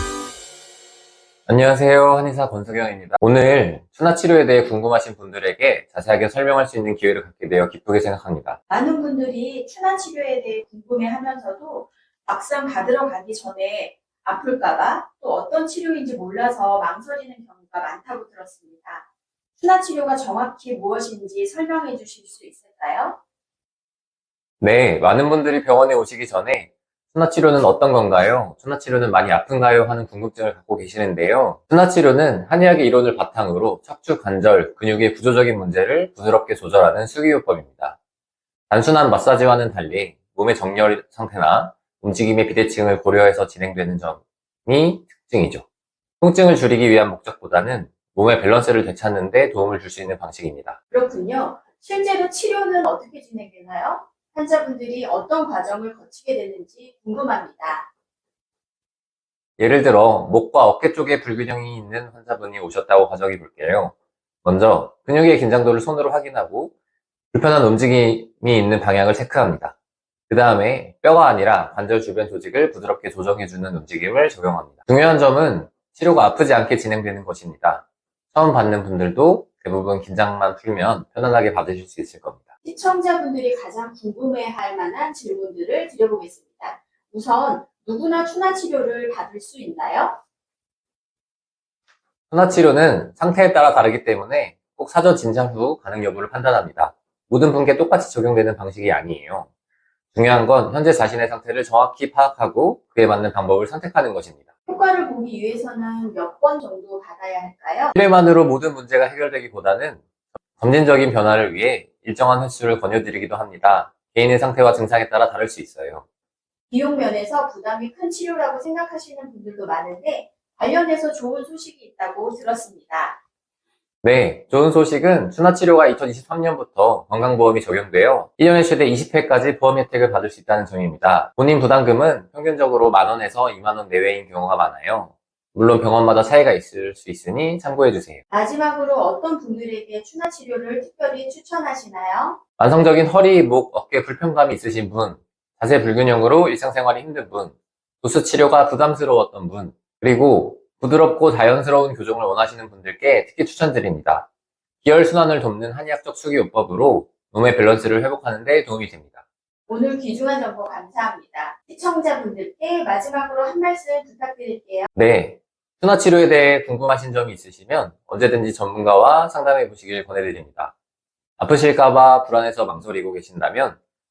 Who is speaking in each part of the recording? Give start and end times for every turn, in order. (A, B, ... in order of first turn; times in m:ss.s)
0:01.5-0:08.6 A
0:08.7-0:19.0 B
0:19.6-0:23.2 B
0:24.6-0:38.0 A
0:38.7-0:45.6 A
0:46.2-0:50.8 A
0:50.9-0:57.9 B
0:59.6-1:06.7 A
1:07.3-1:09.7 A
1:10.3-1:22.4 A
1:22.6-1:30.2 B
1:32.3-1:39.5 A
1:40.1-1:44.4 A
1:44.7-1:47.9 B
1:47.9-1:50.0 A
1:50.6-1:56.0 A
1:56.7-2:03.2 B
2:04.0-2:18.2 A
2:18.3-2:22.4 B
2:22.6-2:34.3 A
2:34.8-2:39.2 A
2:39.7-2:44.9 B
2:44.9-2:50.7 A
2:51.4-2:53.8 A